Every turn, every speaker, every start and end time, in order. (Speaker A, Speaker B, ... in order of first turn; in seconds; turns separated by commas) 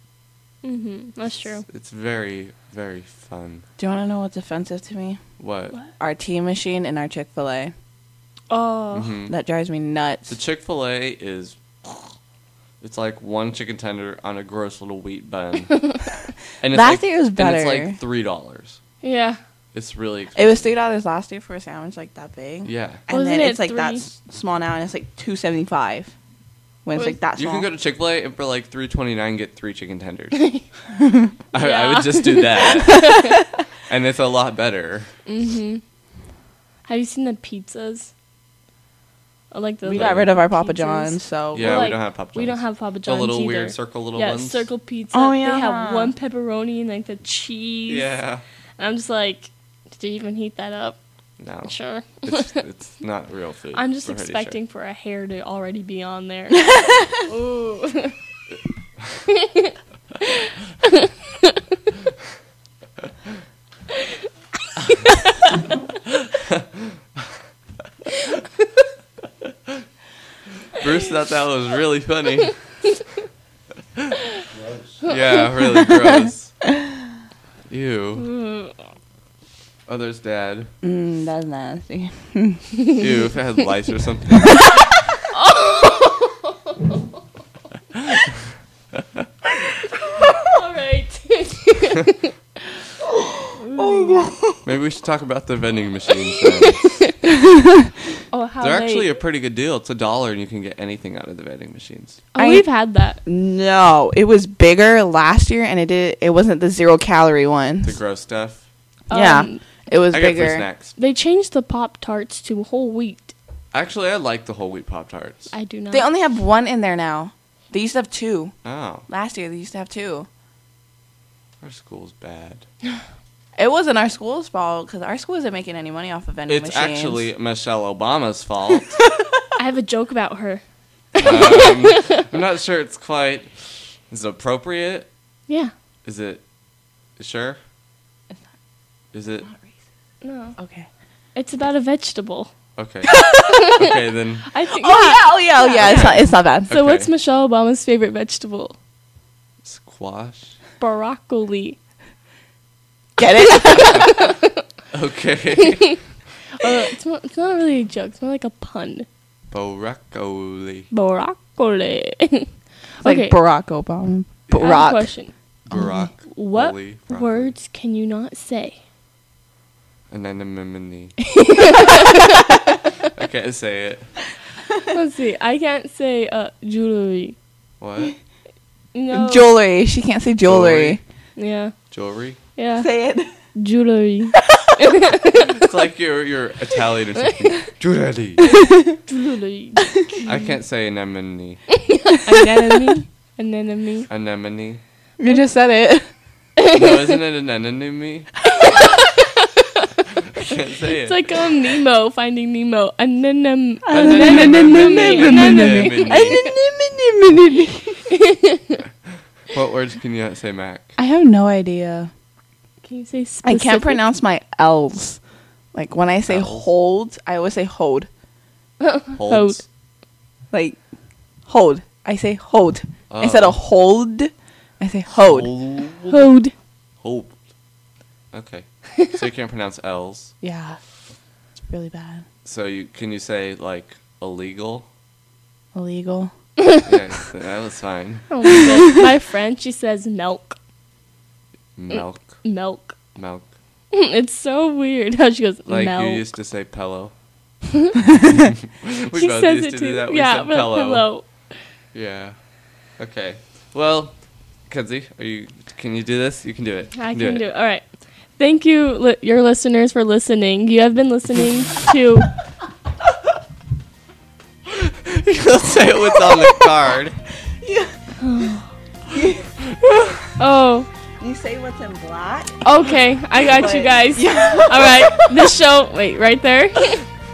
Speaker A: 0.6-1.6, Speaker B: 1.7-3.6, Speaker C: 3.8-5.2, Speaker B: 5.4-5.8, Speaker C: 6.0-7.7, Speaker A: 8.5-9.1, Speaker B: 8.9-9.3, Speaker C: 9.3-10.3, Speaker B: 10.3-12.1, Speaker B: 12.8-15.9, Speaker B: 16.6-18.8, Speaker C: 16.7-18.0, Speaker A: 19.0-19.4, Speaker B: 19.7-20.6, Speaker C: 20.4-26.1, Speaker B: 22.6-23.0, Speaker A: 23.1-24.1, Speaker C: 26.9-27.7, Speaker B: 27.4-30.5, Speaker A: 30.4-30.6, Speaker B: 31.5-33.1, Speaker A: 31.5-33.5, Speaker B: 33.9-35.1, Speaker A: 35.3-35.8, Speaker A: 36.9-38.1, Speaker A: 39.5-48.2, Speaker C: 39.9-41.9, Speaker B: 39.9-40.3, Speaker B: 41.5-44.7, Speaker C: 45.1-46.1, Speaker B: 47.9-48.4, Speaker A: 48.8-51.0, Speaker B: 51.4-54.6, Speaker A: 51.6-52.6, Speaker A: 53.7-58.1, Speaker A: 59.3-59.7, Speaker A: 60.3-61.5, Speaker A: 65.0-65.5, Speaker B: 66.2-66.9, Speaker B: 70.8-72.5, Speaker B: 75.0-76.5, Speaker B: 77.7-78.3, Speaker A: 78.2-78.8, Speaker B: 79.9-80.7, Speaker C: 80.8-82.8, Speaker B: 83.0-84.6, Speaker A: 85.3-86.5, Speaker A: 90.2-92.3, Speaker C: 93.1-94.6, Speaker A: 93.6-94.3, Speaker B: 94.6-96.8, Speaker A: 98.3-99.2, Speaker B: 98.6-102.2, Speaker A: 102.3-103.2, Speaker C: 102.4-102.7, Speaker C: 103.2-108.0, Speaker B: 107.8-108.6, Speaker C: 109.1-110.7, Speaker A: 109.1-109.7, Speaker B: 110.1-111.0, Speaker A: 111.0-113.3, Speaker B: 113.7-115.5, Speaker A: 115.5-116.1, Speaker C: 115.9-118.5, Speaker B: 118.6-119.0, Speaker C: 119.1-120.3, Speaker B: 121.6-122.7, Speaker C: 123.6-127.3, Speaker B: 126.5-129.0, Speaker A: 129.6-130.6, Speaker A: 131.1-132.2, Speaker B: 131.2-135.1, Speaker A: 135.5-135.7, Speaker B: 136.1-136.4, Speaker B: 137.2-137.6, Speaker B: 139.1-139.5, Speaker A: 140.2-140.6, Speaker C: 140.6-140.9, Speaker A: 141.3-142.5, Speaker B: 142.8-144.5, Speaker C: 143.1-143.5, Speaker A: 143.3-143.9, Speaker A: 144.5-146.1, Speaker C: 144.8-146.7, Speaker B: 145.8-147.1, Speaker A: 146.7-148.8, Speaker B: 149.6-150.6, Speaker A: 150.8-151.8, Speaker C: 153.2-154.3, Speaker A: 153.9-154.4, Speaker B: 154.9-156.0, Speaker A: 156.6-159.1, Speaker B: 159.5-160.9, Speaker A: 160.9-163.4, Speaker C: 163.0-165.1, Speaker B: 164.5-164.8, Speaker A: 164.6-165.3, Speaker B: 165.7-167.5, Speaker C: 165.7-166.1, Speaker A: 166.3-168.8, Speaker B: 170.1-171.2, Speaker A: 171.3-172.5, Speaker B: 173.1-174.2, Speaker A: 174.9-177.4, Speaker B: 177.8-178.1, Speaker A: 178.9-179.5, Speaker C: 179.1-181.0, Speaker B: 180.4-181.0, Speaker A: 181.4-181.7, Speaker B: 181.9-182.4, Speaker A: 182.6-182.9, Speaker C: 182.8-183.3, Speaker A: 183.6-185.5, Speaker B: 185.6-188.4, Speaker C: 188.5-189.0, Speaker A: 189.1-190.3, Speaker B: 190.3-191.8, Speaker A: 191.8-194.1, Speaker C: 192.5-193.0, Speaker B: 194.1-194.8, Speaker C: 195.2-196.1, Speaker A: 196.6-197.0, Speaker B: 196.7-198.3, Speaker A: 198.6-199.8, Speaker B: 200.4-201.3, Speaker A: 201.1-206.5, Speaker C: 203.9-208.0, Speaker B: 203.9-206.4, Speaker A: 208.1-208.8, Speaker B: 209.5-210.9, Speaker C: 211.0-212.1, Speaker A: 212.8-214.0, Speaker C: 213.4-215.2, Speaker C: 215.7-218.1, Speaker B: 216.3-216.7, Speaker A: 218.8-219.6, Speaker B: 219.2-219.7, Speaker C: 220.5-220.8, Speaker C: 221.5-226.4, Speaker B: 223.1-223.6, Speaker B: 225.2-226.3, Speaker B: 227.0-227.4, Speaker B: 228.3-230.3, Speaker C: 230.4-230.8, Speaker C: 231.6-232.2, Speaker B: 232.4-234.9, Speaker C: 235.8-236.3, Speaker B: 236.8-239.0, Speaker A: 238.3-240.6, Speaker B: 241.8-242.4, Speaker A: 241.9-243.0, Speaker B: 243.2-243.5, Speaker A: 243.9-246.3, Speaker B: 245.7-247.1, Speaker B: 248.8-251.1, Speaker A: 249.1-251.6, Speaker B: 251.9-252.4, Speaker B: 253.0-257.4, Speaker A: 257.0-262.3, Speaker B: 264.7-267.2, Speaker C: 267.5-267.9, Speaker A: 268.2-268.7, Speaker C: 269.1-269.5, Speaker A: 270.4-270.9, Speaker C: 271.2-272.6, Speaker A: 272.6-277.0, Speaker C: 273.4-275.3